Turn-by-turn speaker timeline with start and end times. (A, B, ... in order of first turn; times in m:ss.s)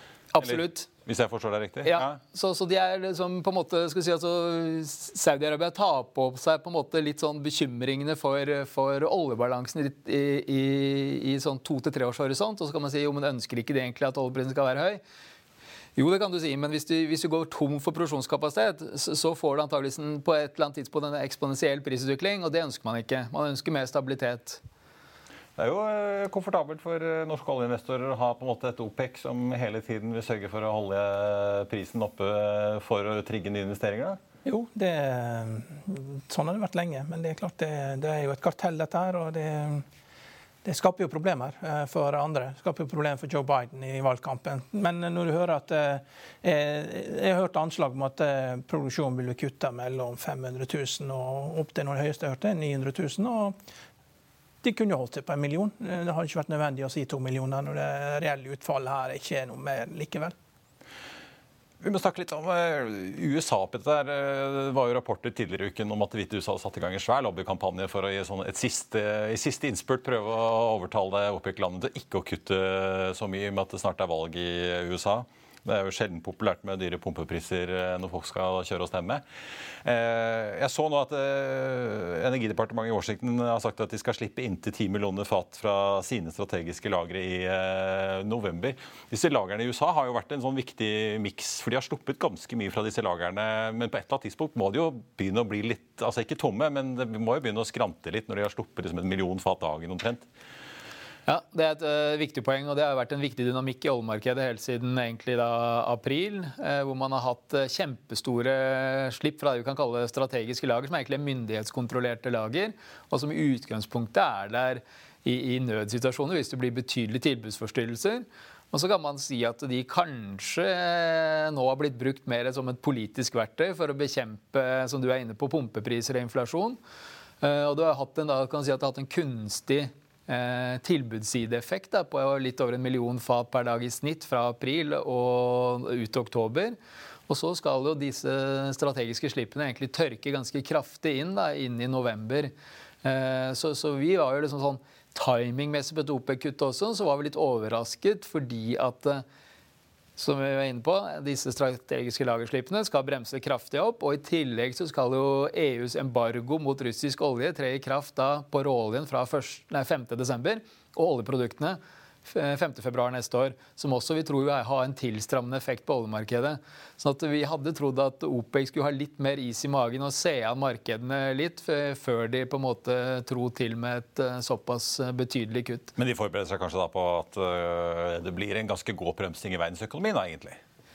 0:00.3-0:00.9 A
0:00.4-0:02.2 B
0:01.8-0:15.0 A
0:16.0-0:24.6 A
0:25.6-0:34.2 B
0:34.4-0:39.8 C
0:40.6-0:53.5 C
0:54.6-1:00.3 C
1:01.8-1:19.2 B
1:19.8-1:40.2 B
1:41.3-2:06.8 A
2:07.4-2:16.8 A
2:17.3-2:22.5 A
2:23.0-2:29.2 A
2:30.2-2:55.9 A
2:56.0-3:00.6 B